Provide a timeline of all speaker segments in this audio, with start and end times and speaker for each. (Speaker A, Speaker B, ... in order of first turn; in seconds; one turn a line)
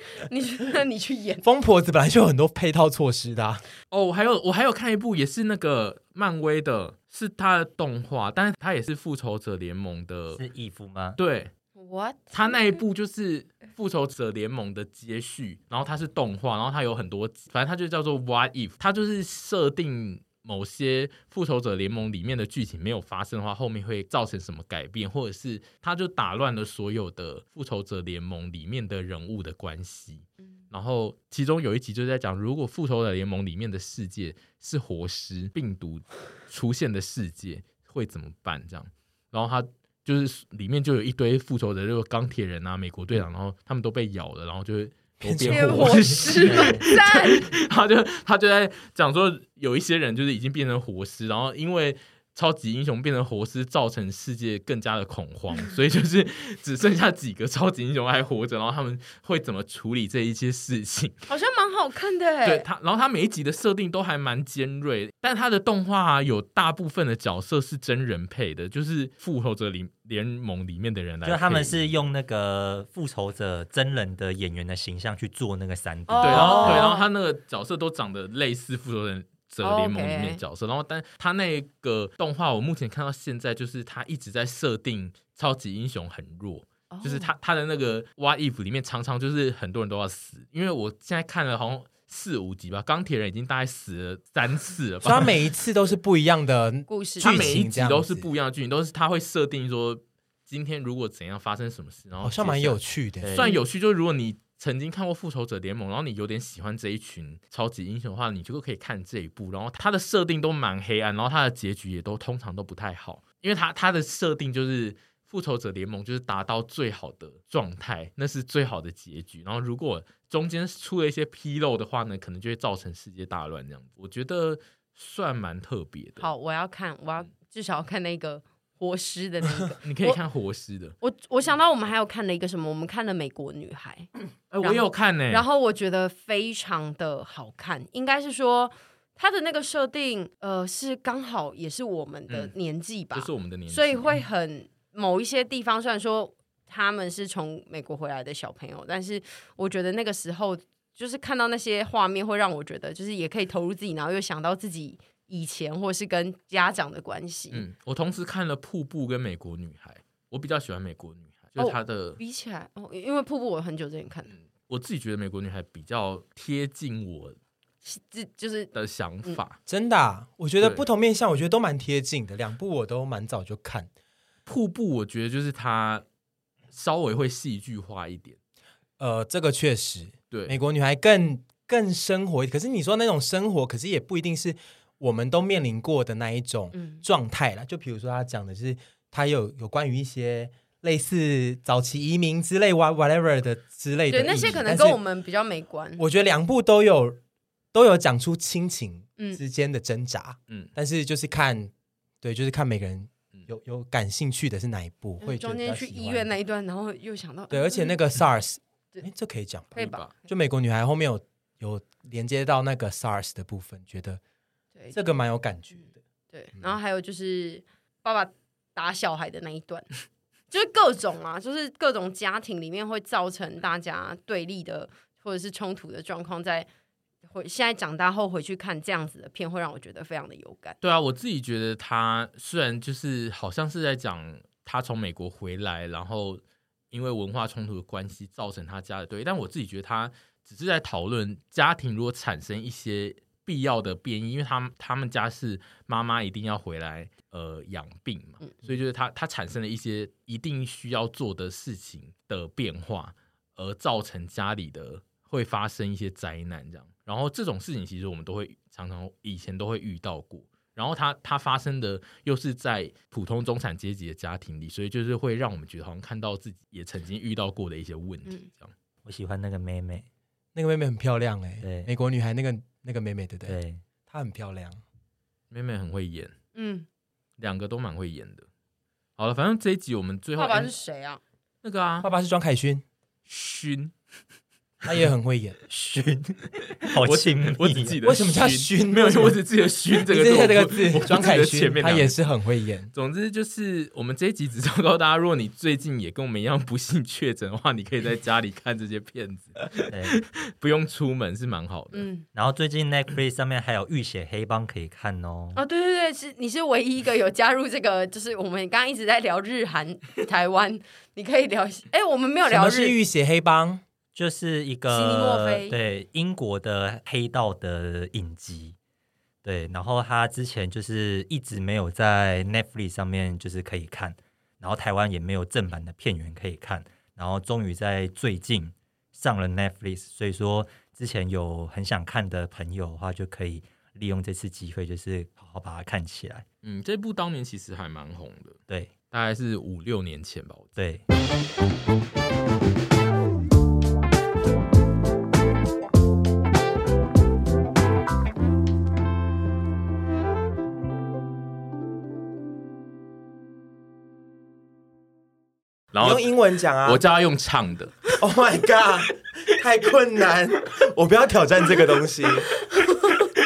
Speaker A: 0.1-1.4
Speaker B: 1.4-3.6
Speaker C: 3.9-10.4
Speaker D: 10.3-11.2
Speaker C: 11.2-11.5
Speaker A: 11.8-12.8
Speaker C: 12.3-61.1
Speaker B: 45.2-46.6
Speaker A: 45.5-47.5
Speaker D: 46.5-46.8
Speaker A: 61.3-62.6
Speaker C: 62.4-71.8
Speaker D: 71.2-76.9
Speaker A: 76.1-77.0
Speaker C: 76.2-95.4
Speaker A: 79.6-80.4
Speaker A: 86.9-87.3
Speaker B: 95.0-98.3
Speaker A: 96.9-97.5
Speaker C: 97.2-102.8
Speaker B: 102.2-103.4
Speaker D: 103.2-103.5
Speaker C: 103.3-126.3
Speaker A: 126.2-130.2
Speaker C: 129.8-130.9
Speaker A: 131.0-134.1
Speaker C: 134.5-135.4
Speaker A: 134.6-157.6
Speaker C: 143.1-144.2
Speaker C: 157.5-162.2
Speaker A: 161.6-164.3
Speaker C: 164.3-167.4
Speaker A: 167.8-168.7
Speaker C: 168.7-169.6
Speaker B: 169.7-173.9
Speaker C: 170.6-170.8
Speaker C: 174.4-176.0
Speaker C: 176.7-178.4
Speaker B: 179.0-195.0
Speaker C: 180.3-180.6
Speaker A: 186.7-187.0
Speaker A: 194.1-196.0
Speaker B: 196.0-197.2
Speaker B: 197.7-201.7
Speaker B: 202.2-206.3
Speaker A: 205.2-207.9
Speaker B: 207.5-214.2
Speaker A: 209.8-210.1
Speaker C: 209.8-210.1
Speaker B: 214.9-216.0
Speaker A: 216.3-219.9
Speaker A: 220.5-226.7
Speaker A: 227.3-230.8
Speaker C: 230.8-268.7
Speaker D: 269.0-270.1
Speaker B: 270.5-274.8
Speaker D: 271.6-271.9
Speaker D: 273.5-273.8
Speaker C: 275.5-276.3
Speaker A: 276.5-276.9
Speaker C: 277.4-278.4
Speaker C: 279.2-280.7
Speaker A: 280.4-281.2
Speaker C: 281.6-282.1
Speaker B: 282.0-282.8
Speaker C: 283.3-283.9
Speaker B: 284.8-285.6
Speaker D: 285.7-287.9
Speaker C: 287.0-292.1
Speaker B: 288.0-289.4
Speaker B: 290.0-292.9
Speaker C: 292.9-302.1
Speaker D: 299.9-300.2
Speaker A: 301.9-302.2
Speaker D: 302.3-305.6
Speaker A: 305.6-312.9
Speaker B: 312.5-313.8
Speaker D: 314.1-318.8
Speaker A: 314.9-315.7
Speaker D: 319.4-336.4
Speaker C: 336.6-338.6
Speaker C: 339.1-340.7
Speaker D: 340.8-341.0
Speaker C: 355.9-356.2
Speaker B: 356.0-357.0
Speaker C: 356.8-358.1
Speaker B: 358.2-362.5
Speaker A: 362.7-363.2